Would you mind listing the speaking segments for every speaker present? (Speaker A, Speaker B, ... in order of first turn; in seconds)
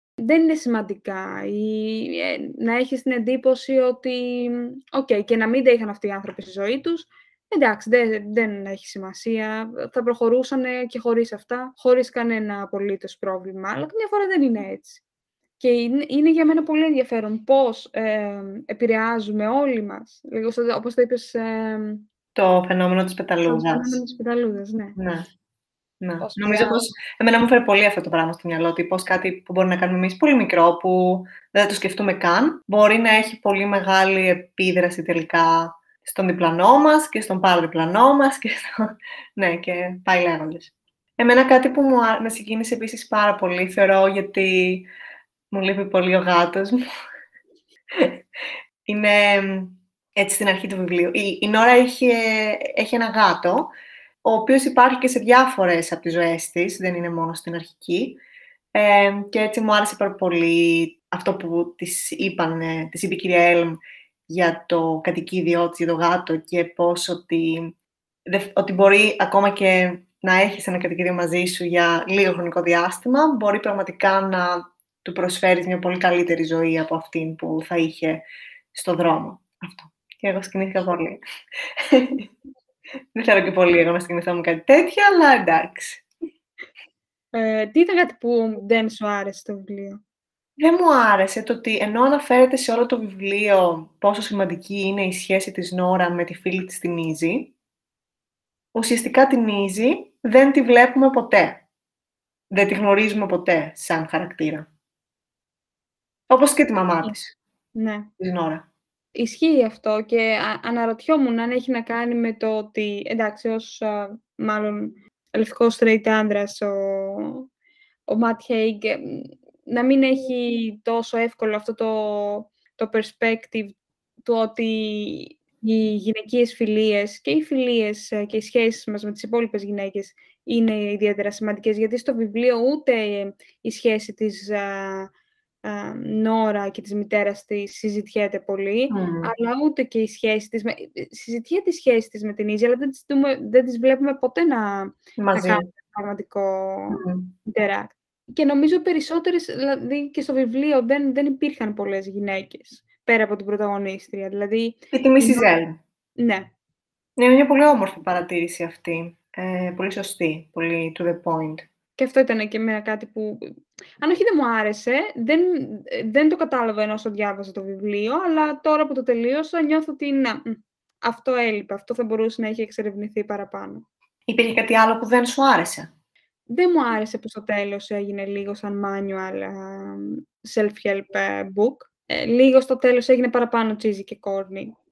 Speaker A: 0.2-15.0, 15.6-22.1, 23.5-25.0, 26.2-26.9, 87.3-90.0, 107.8-108.1, 109.2-117.5, 118.1-135.1, 135.7-155.5, 156.2-156.5, 162.0-173.9, 176.5-184.8
Speaker B: 22.4-24.0, 25.0-25.3, 26.0-44.9, 45.5-46.8, 47.9-48.2, 48.9-53.7, 54.2-58.2, 58.7-67.8, 68.3-81.2, 81.8-82.3, 83.2-86.0, 90.6-97.5, 98.7-101.7, 102.5-104.7, 106.3-107.3, 108.2-108.7, 138.9-139.3, 145.2-145.7, 146.9-147.3, 154.9-155.8, 157.2-161.7, 174.3-175.9